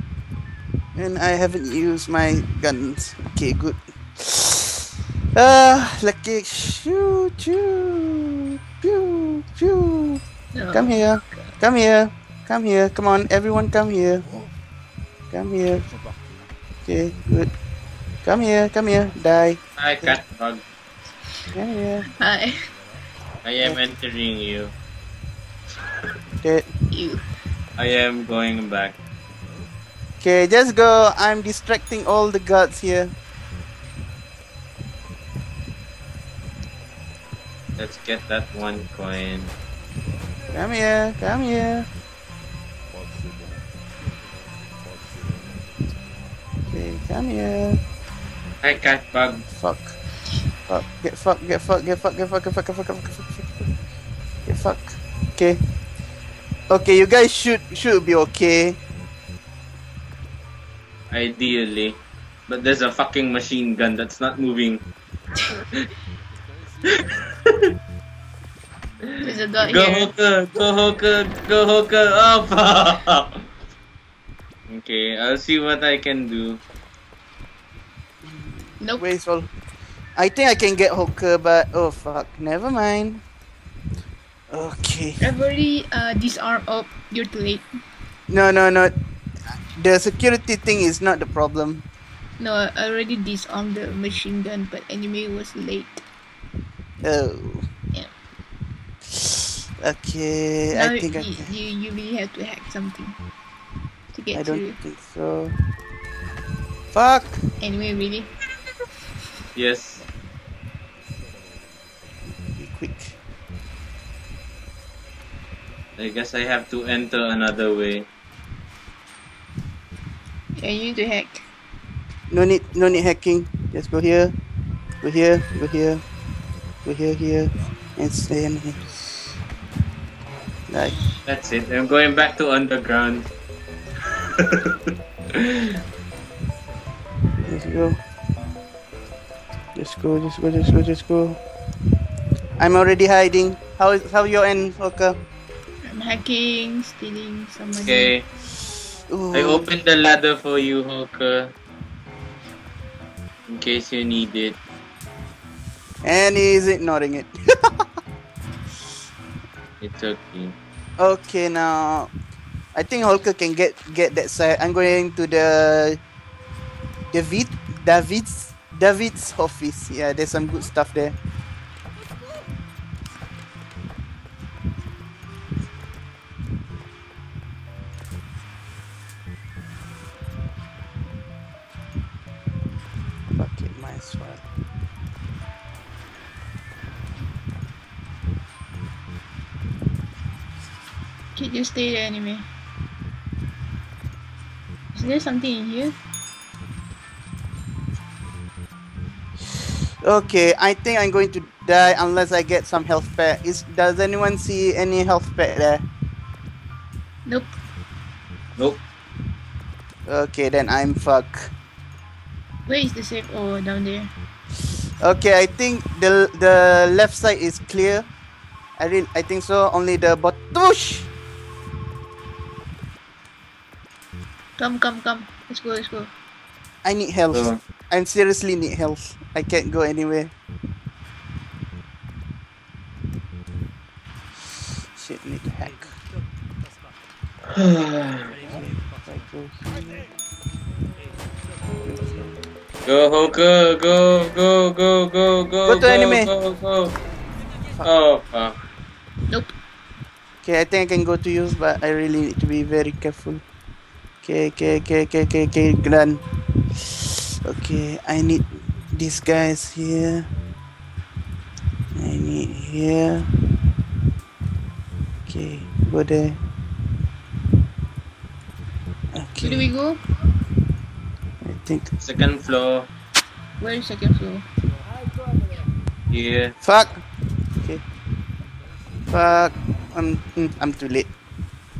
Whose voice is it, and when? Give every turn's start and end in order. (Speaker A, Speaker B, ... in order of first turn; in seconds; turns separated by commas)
Speaker A: 0.9-14.3, Speaker B: 10.5-11.4, Speaker A: 15.3-15.9, Speaker A: 16.9-17.5, Speaker A: 18.2-20.2, Speaker C: 19.8-20.6, Speaker A: 21.5-22.1, Speaker B: 22.1-22.6, Speaker C: 23.4-24.7, Speaker A: 26.4-26.7, Speaker B: 26.9-27.2, Speaker C: 27.8-29.0, Speaker A: 30.2-33.1, Speaker C: 37.8-39.5, Speaker A: 40.5-41.9, Speaker A: 46.7-47.8, Speaker C: 48.6-49.4, Speaker A: 49.5-50.0, Speaker A: 50.7-53.6, Speaker A: 54.5-55.6, Speaker A: 56.7-58.8, Speaker C: 61.1-64.8, Speaker C: 67.0-67.3, Speaker B: 69.2-70.1, Speaker C: 69.6-73.3, Speaker C: 74.7-76.6, Speaker A: 78.2-79.5, Speaker B: 78.8-79.1, Speaker A: 80.2-83.2, Speaker A: 84.5-85.2, Speaker B: 85.2-87.7, Speaker A: 88.3-88.9, Speaker A: 89.8-91.8, Speaker B: 92.4-96.0, Speaker A: 97.0-97.7, Speaker A: 99.1-101.5, Speaker B: 100.7-103.2, Speaker B: 104.1-104.8, Speaker A: 104.3-105.5, Speaker A: 106.9-107.4, Speaker B: 107.6-108.3, Speaker C: 109.5-110.0, Speaker A: 112.5-113.2, Speaker C: 116.0-118.1, Speaker B: 120.6-121.5, Speaker A: 122.3-124.3, Speaker A: 125.0-126.0, Speaker A: 126.8-128.8, Speaker A: 130.7-131.0, Speaker C: 131.2-133.3, Speaker C: 134.3-134.7, Speaker A: 137.4-138.0, Speaker A: 139.8-141.4, Speaker A: 142.6-145.2, Speaker B: 145.8-148.1, Speaker C: 147.7-148.2, Speaker A: 149.1-149.7, Speaker C: 149.3-151.5, Speaker C: 153.5-154.6, Speaker A: 156.0-157.8, Speaker C: 159.8-160.6, Speaker A: 161.0-162.1, Speaker A: 162.8-166.0, Speaker A: 167.1-171.1, Speaker A: 183.3-184.4, Speaker B: 191.3-192.5, Speaker B: 194.9-195.9, Speaker A: 200.0-205.8, Speaker B: 207.2-207.6, Speaker A: 210.1-211.5, Speaker B: 212.7-214.1, Speaker A: 215.0-218.1, Speaker A: 218.8-221.1, Speaker B: 224.6-226.1, Speaker A: 226.8-230.3, Speaker C: 227.3-227.6, Speaker A: 234.9-236.0, Speaker C: 237.6-238.3, Speaker A: 238.4-240.1, Speaker A: 241.8-242.3, Speaker C: 242.8-246.9, Speaker A: 245.7-246.3, Speaker C: 247.8-248.6, Speaker B: 249.3-249.5, Speaker A: 250.4-253.4, Speaker A: 254.2-256.2, Speaker A: 256.8-260.3, Speaker A: 261.9-263.3, Speaker A: 265.3-266.4, Speaker A: 269.1-269.7, Speaker B: 269.4-270.0, Speaker A: 271.4-271.9, Speaker C: 272.0-272.9, Speaker B: 273.6-274.4, Speaker C: 276.1-276.6, Speaker A: 276.6-277.0, Speaker A: 279.1-281.1